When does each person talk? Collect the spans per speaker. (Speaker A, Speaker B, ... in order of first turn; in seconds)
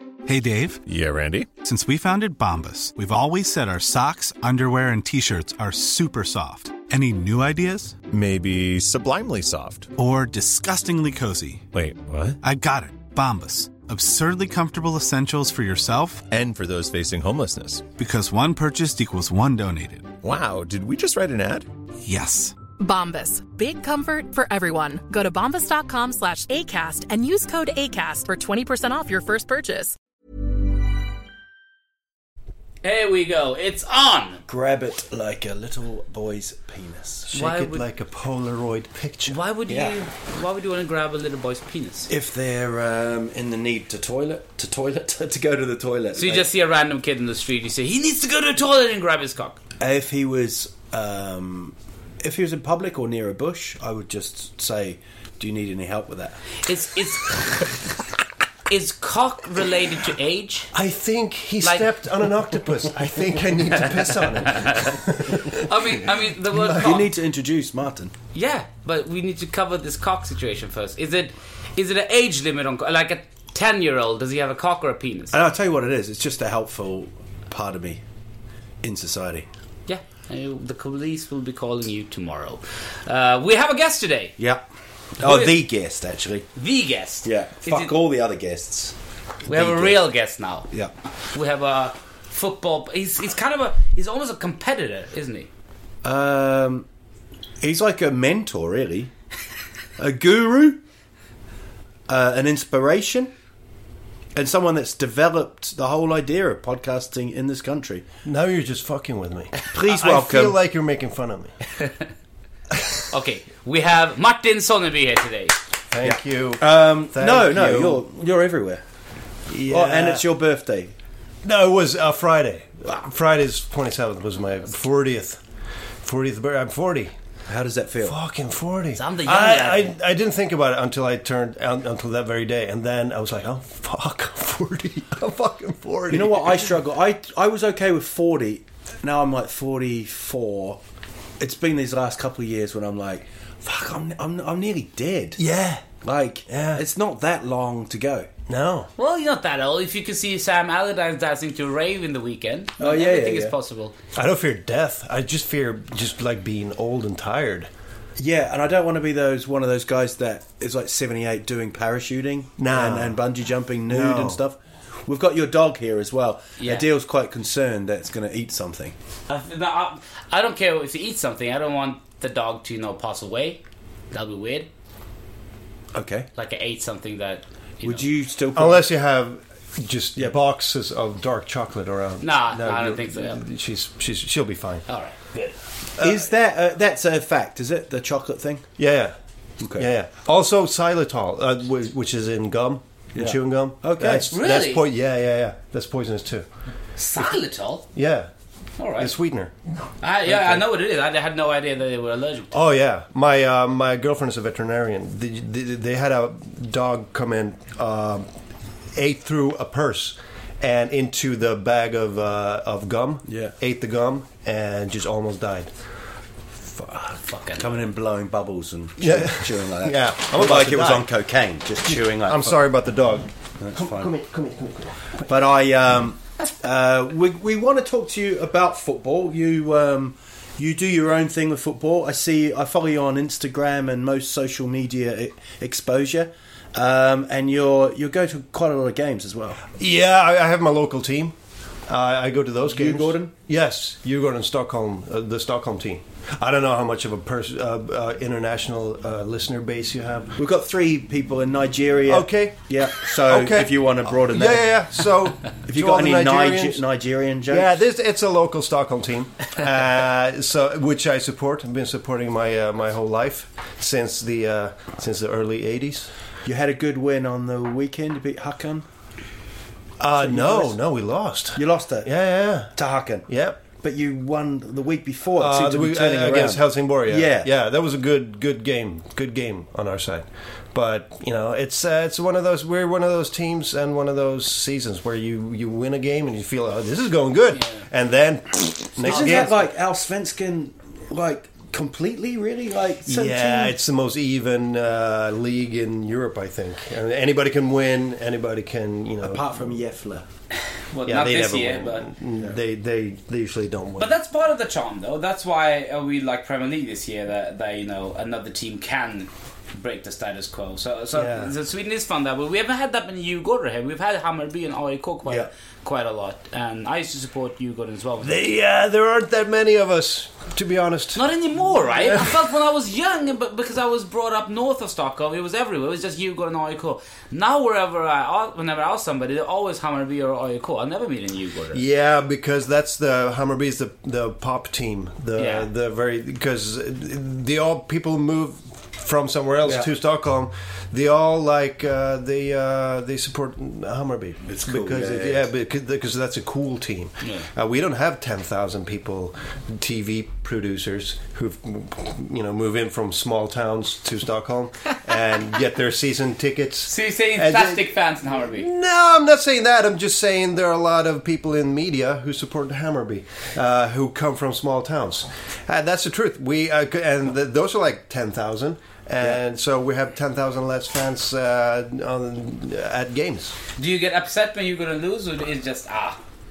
Speaker A: 0.3-0.8, 1.6-8.0, 10.0-11.7, 12.4-16.2, 18.0-20.1, 22.0-22.6
Speaker B: 0.9-1.6, 8.1-9.9, 11.7-12.4, 16.3-17.9, 20.2-21.7
Speaker C: 22.8-30.0
Speaker D: 32.8-34.4, 37.3-37.8, 39.3-42.1, 46.2-49.6, 56.6-57.8, 58.7-60.7, 61.6-61.9, 63.7-67.1, 68.3-75.4, 79.9-84.4, 85.2-85.6, 86.6-87.9, 89.5-90.7, 91.3-95.5, 113.1-115.6, 128.9-129.9, 149.0-153.9, 166.6-166.8, 169.3-173.6, 174.1-174.7, 176.4-178.1, 182.2-183.4, 184.9-185.6, 194.3-194.9, 197.0-197.9, 198.8-199.2, 200.0-202.6, 217.2-217.8, 287.5-287.9, 289.1-289.5, 300.9-302.1, 304.0-318.4, 321.1-331.8, 335.4-335.7, 356.9-358.7, 373.8-376.2
Speaker E: 34.5-37.3, 39.7-40.0, 42.1-46.5, 49.8-56.4, 66.7-68.1, 75.3-78.0, 78.8-79.5, 85.2-86.5, 87.2-89.0, 89.5-90.0, 96.0-96.9, 97.6-99.1, 100.0-100.8, 102.1-103.3, 104.3-108.0, 109.7-110.6, 116.0-118.8, 119.7-120.9, 127.5-128.2, 136.1-140.8, 141.4-145.4, 146.0-148.3, 152.8-153.5, 158.2-168.9, 175.9-176.3, 177.8-178.8, 186.0-188.7, 189.6-189.9, 193.1-194.3, 213.3-213.6, 217.0-222.6, 223.6-224.1, 225.3-239.7, 242.7-243.3, 250.4-254.8, 255.6-257.7, 266.4-268.9, 270.2-270.8, 271.6-272.1, 272.7-273.3, 273.8-277.5, 289.0-293.8, 299.2-300.3, 344.5-345.4
Speaker F: 37.3-39.4, 60.7-66.9, 108.2-111.5, 115.9-118.0, 119.5-120.2, 121.4-125.4, 126.0-127.2, 128.0-136.7, 145.4-145.9, 146.5-146.8, 148.5-148.9, 154.2-157.7, 162.6-163.2, 163.9-164.4, 178.5-184.8, 186.0-186.3, 188.8-189.2, 189.8-196.5, 197.9-198.3, 199.0-199.5, 200.3-200.6, 202.5-208.3, 208.9-215.7, 219.0-221.1, 221.8-225.2, 239.8-241.3, 241.9-250.4, 252.1-256.8, 257.5-266.1, 270.0-272.7, 273.3-273.6, 275.4-289.6, 293.1-299.5, 301.1-304.1, 311.1-311.5, 318.2-321.2, 321.9-322.5, 331.7-373.6